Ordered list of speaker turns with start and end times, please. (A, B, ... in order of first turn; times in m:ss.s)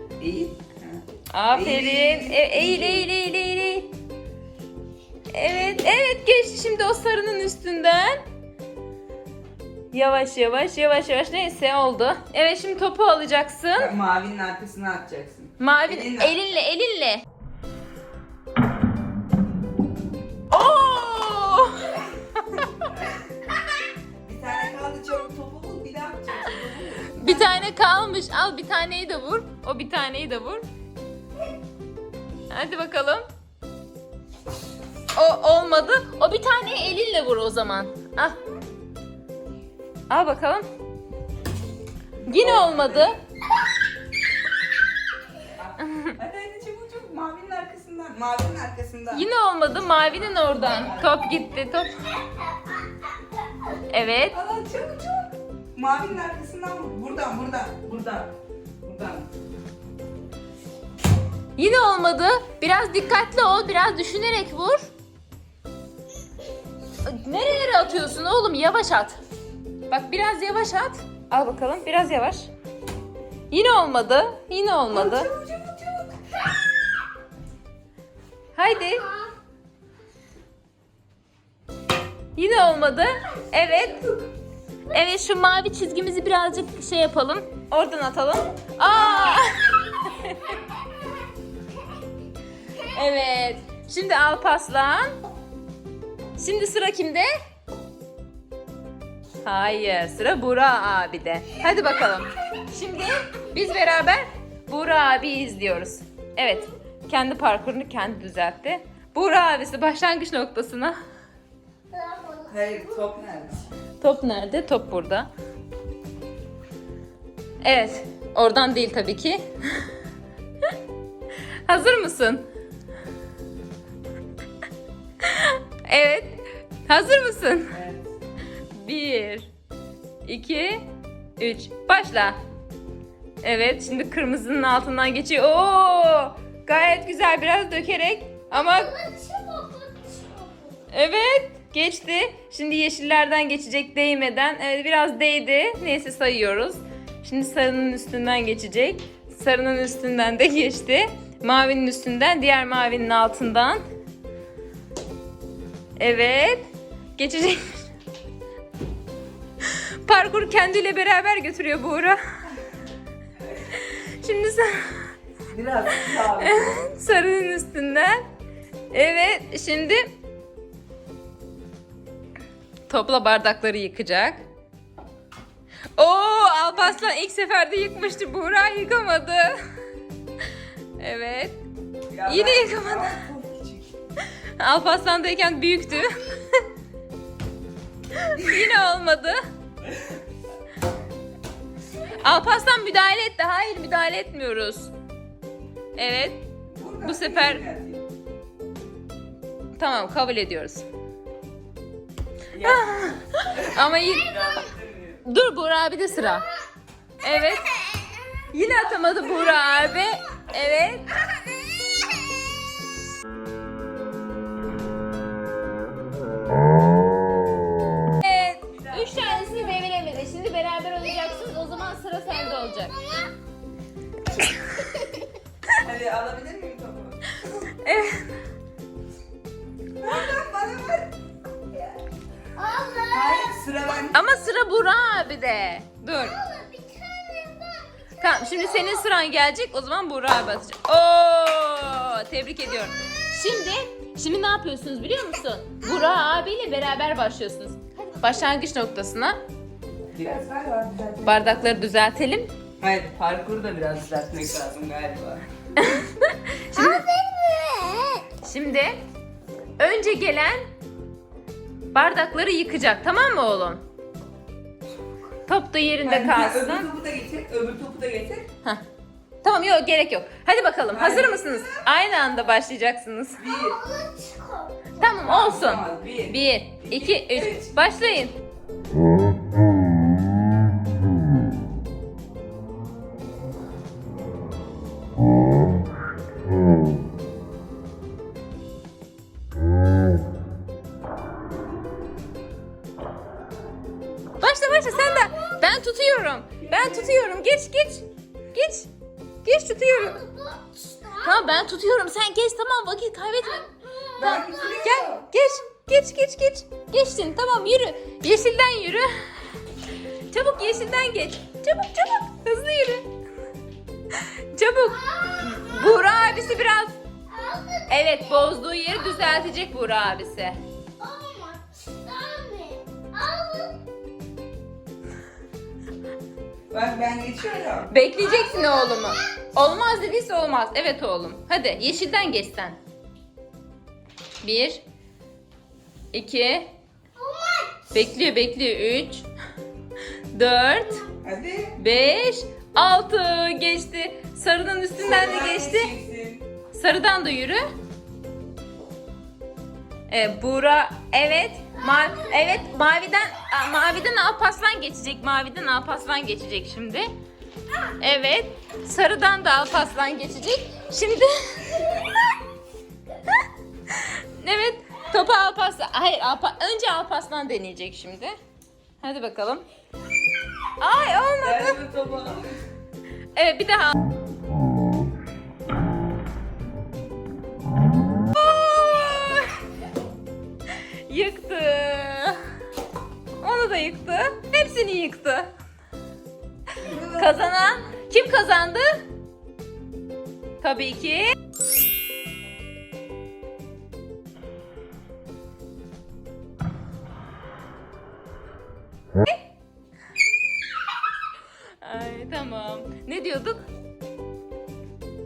0:00.2-0:03.1 A
0:01.3-0:03.9 B
0:05.3-0:08.2 B
0:09.9-0:13.9 B
0:13.8-0:16.4 A
0:15.6-0:17.2 B
0:20.5-0:22.7 B
0:24.2-0:27.7 A
0:27.1-0:30.6 B
0:32.5-0:33.3 B
0:35.2-0:38.4 B
0:40.1-0:40.7 B
0:42.2-0:43.1 A
0:42.3-0:43.2 B
0:45.6-0:49.3 A
0:49.1-0:52.1 B
0:50.2-0:51.3 A
0:53.9-0:54.4 B
0:54.3-0:59.3 A
1:01.6-1:04.9 B
1:07.0-1:09.2 B
1:09.9-1:12.5 B
1:13.5-1:15.3 B
1:14.9-1:16.2 A
1:18.6-1:19.1 B
1:18.9-1:19.3 C
1:22.4-1:24.0 B
1:24.9-1:30.6 B
1:29.0-1:29.4 C
1:32.8-1:35.1 B
1:36.4-1:37.3 B
1:39.4-1:51.0 B
1:51.9-1:53.1 C
1:52.5-1:53.6 A
1:54.0-1:55.3 B
1:57.6-1:59.4 B
2:01.7-2:02.4 B
2:05.2-2:07.8 B
2:07.7-2:08.2 A
2:08.8-2:09.5 B
2:10.2-2:10.8 B
2:11.4-2:12.4 B
2:13.4-2:18.9 B
2:18.5-2:20.8 C
2:20.9-2:33.8 B
2:36.0-2:37.7 B
2:39.7-2:42.2 B
2:43.7-2:45.1 B
2:45.5-2:46.8 A
2:46.2-2:48.2 B
2:48.9-2:50.1 B
2:52.9-2:54.4 B
2:56.0-2:59.6 B
3:01.0-3:01.6 B
3:02.1-3:03.9 A
3:02.3-3:03.2 B
3:04.6-3:06.7 B
3:08.1-3:09.4 B
3:12.1-3:14.9 B
3:16.0-3:16.4 B
3:16.7-3:18.0 A
3:17.0-3:17.6 B
3:19.8-3:20.9 B
3:22.5-3:25.2 A
3:22.6-3:24.5 B
3:25.2-3:26.5 B
3:27.2-3:27.8 B
3:27.7-3:28.2 C
3:28.5-3:31.2 B
3:31.4-3:32.4 C
3:38.2-3:43.0 B
3:38.7-3:39.5 A
3:41.2-3:41.7 C
3:42.3-3:43.3 C
3:44.4-3:45.0 B
3:45.8-3:47.7 A
3:47.7-3:48.3 B
3:50.0-3:51.2 A
3:51.7-3:52.0 A
3:52.6-3:54.0 C
3:53.1-3:54.2 A
3:54.1-3:56.4 B
3:56.1-3:59.0 C
3:58.2-4:09.4 B
4:10.1-4:11.8 A
4:11.2-4:12.5 B
4:12.8-4:15.5 A
4:15.8-4:17.0 B
4:16.7-4:18.3 C
4:18.4-4:19.0 B
4:19.8-4:20.6 B
4:21.9-4:23.8 B
4:25.5-4:26.9 B
4:26.0-4:28.5 A
4:29.4-4:33.4 B
4:30.9-4:31.8 A
4:33.4-4:33.8 A
4:33.4-4:35.3 C
4:35.0-4:38.4 B
4:35.2-4:37.8 A
4:54.4-4:58.9 B
4:54.9-4:55.7 C
4:56.6-4:57.2 A
4:59.4-5:00.2 B
4:59.9-5:01.5 C
5:01.2-5:03.6 B
5:03.4-5:05.0 C
5:04.2-5:05.3 A
5:04.2-5:09.1 B
5:10.3-5:13.1 B
5:14.1-5:17.0 B
5:15.0-5:16.6 C
5:17.3-5:19.4 C
5:17.9-5:20.6 B
5:21.0-5:23.8 C
5:26.7-5:27.9 A
5:27.9-5:32.8 B
5:28.2-5:29.4 C
5:34.4-5:34.8 B
5:36.1-5:36.7 B
5:37.2-5:37.8 C
5:37.9-5:39.2 B
5:40.3-5:41.0 B
5:41.2-5:41.8 A
5:41.8-5:45.9 B
5:45.0-5:46.5 A
5:46.7-5:47.6 B
5:50.1-5:57.1 B
5:58.0-6:02.0 B
6:03.9-6:08.3 B
6:09.0-6:09.6 B
6:10.8-6:11.8 B
6:11.4-6:12.5 A
6:13.4-6:14.0 B
6:18.3-6:19.6 B
6:21.1-6:22.4 B
6:23.4-6:25.5 B
6:26.8-6:27.9 A
6:27.0-6:29.0 B
6:30.6-6:31.3 B
6:41.8-6:43.6 B